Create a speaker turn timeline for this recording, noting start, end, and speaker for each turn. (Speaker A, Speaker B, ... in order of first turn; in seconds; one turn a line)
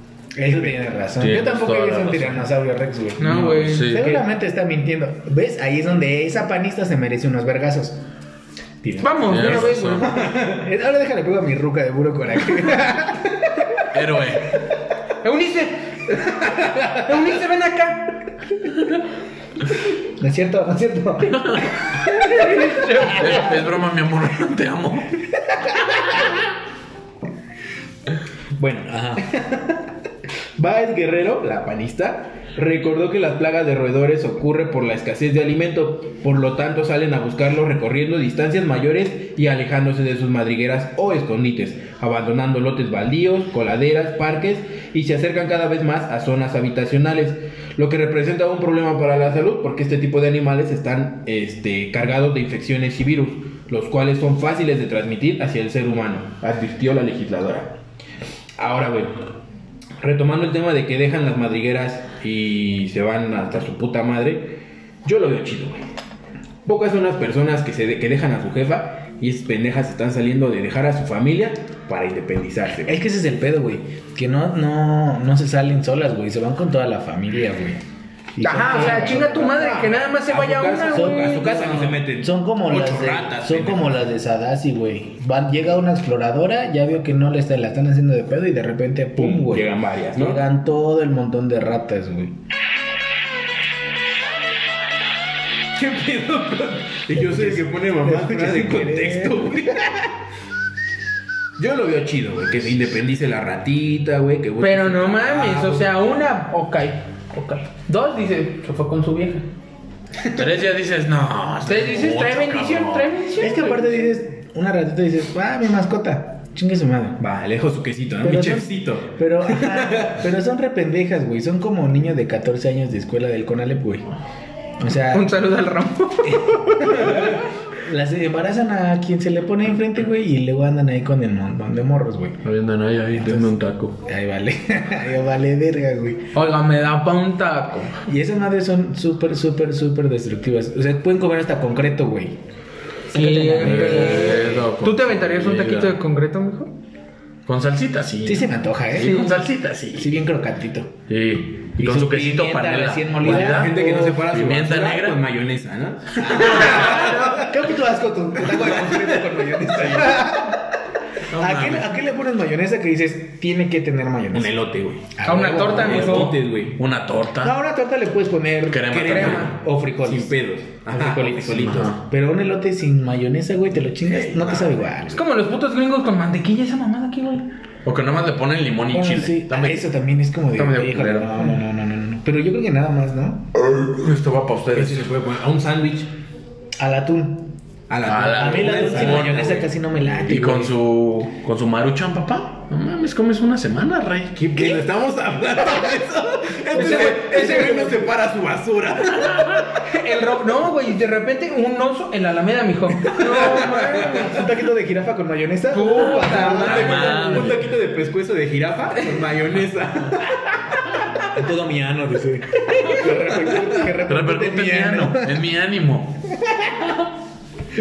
Speaker A: 0.3-8.0
Speaker B: 0.5-0.8
Speaker C: 1.2-2.4
Speaker D: 3.2-3.9
Speaker C: 3.3-4.2
Speaker D: 9.0-10.1
Speaker C: 9.2-10.1
Speaker A: 9.3-13.9
Speaker B: 10.0-10.6
Speaker C: 13.9-14.6
Speaker D: 15.2-16.0
Speaker D: 16.8-18.1
Speaker A: 20.2-21.7
Speaker C: 21.3-21.7
Speaker C: 22.3-25.2
Speaker D: 22.4-23.2
Speaker B: 28.6-29.8
Speaker A: 28.9-29.2
Speaker B: 30.6-57.7
Speaker B: 58.6-59.3
Speaker B: 60.0-65.8
Speaker B: 66.6-73.0
Speaker A: 72.8-77.8
Speaker A: 78.3-79.8
Speaker D: 78.4-82.0
Speaker B: 78.6-84.1
Speaker A: 80.9-81.4
Speaker A: 82.1-92.4
Speaker B: 89.2-90.4
Speaker B: 95.7-100.1
Speaker A: 97.1-100.0
Speaker B: 101.6-106.1
Speaker D: 104.6-109.5
Speaker C: 110.3-113.1
Speaker D: 111.6-114.0
Speaker A: 113.4-117.2
Speaker B: 117.2-120.2
Speaker A: 118.2-124.0
Speaker A: 124.8-125.3
Speaker D: 125.1-126.7
Speaker A: 126.3-132.4
Speaker C: 132.4-134.0
Speaker A: 133.1-136.3
Speaker D: 136.3-137.9
Speaker A: 138.0-142.4
Speaker A: 143.1-144.6
Speaker D: 143.1-146.7
Speaker C: 143.5-145.9
Speaker C: 147.5-150.2
Speaker A: 148.2-149.4
Speaker D: 149.0-149.3
Speaker A: 149.9-150.9
Speaker C: 151.1-155.2
Speaker A: 151.8-153.9
Speaker B: 153.2-157.5
Speaker A: 156.2-160.7
Speaker B: 158.4-160.1
Speaker C: 159.8-160.2
Speaker C: 161.3-161.9
Speaker A: 161.3-164.6
Speaker B: 164.3-166.8
Speaker A: 165.2-166.2
Speaker D: 165.2-166.3
Speaker C: 166.7-167.5
Speaker A: 167.4-170.3
Speaker C: 168.7-169.5
Speaker B: 168.9-172.0
Speaker D: 169.1-169.5
Speaker A: 170.9-175.2
Speaker C: 171.1-172.0
Speaker B: 174.1-174.8
Speaker D: 175.1-177.4
Speaker C: 177.8-179.9
Speaker A: 178.9-183.4
Speaker C: 180.5-181.5
Speaker C: 183.5-185.1
Speaker B: 184.7-186.1
Speaker A: 186.8-187.5
Speaker B: 187.9-189.7
Speaker C: 188.0-194.6
Speaker A: 188.3-190.7
Speaker B: 194.4-199.7
Speaker A: 196.7-198.0
Speaker D: 196.7-198.0
Speaker D: 199.8-204.4
Speaker B: 203.0-204.3
Speaker A: 204.1-207.6
Speaker D: 205.7-207.2
Speaker B: 206.5-211.0
Speaker C: 206.5-207.7
Speaker A: 211.3-215.4
Speaker C: 214.0-216.2
Speaker A: 216.4-216.9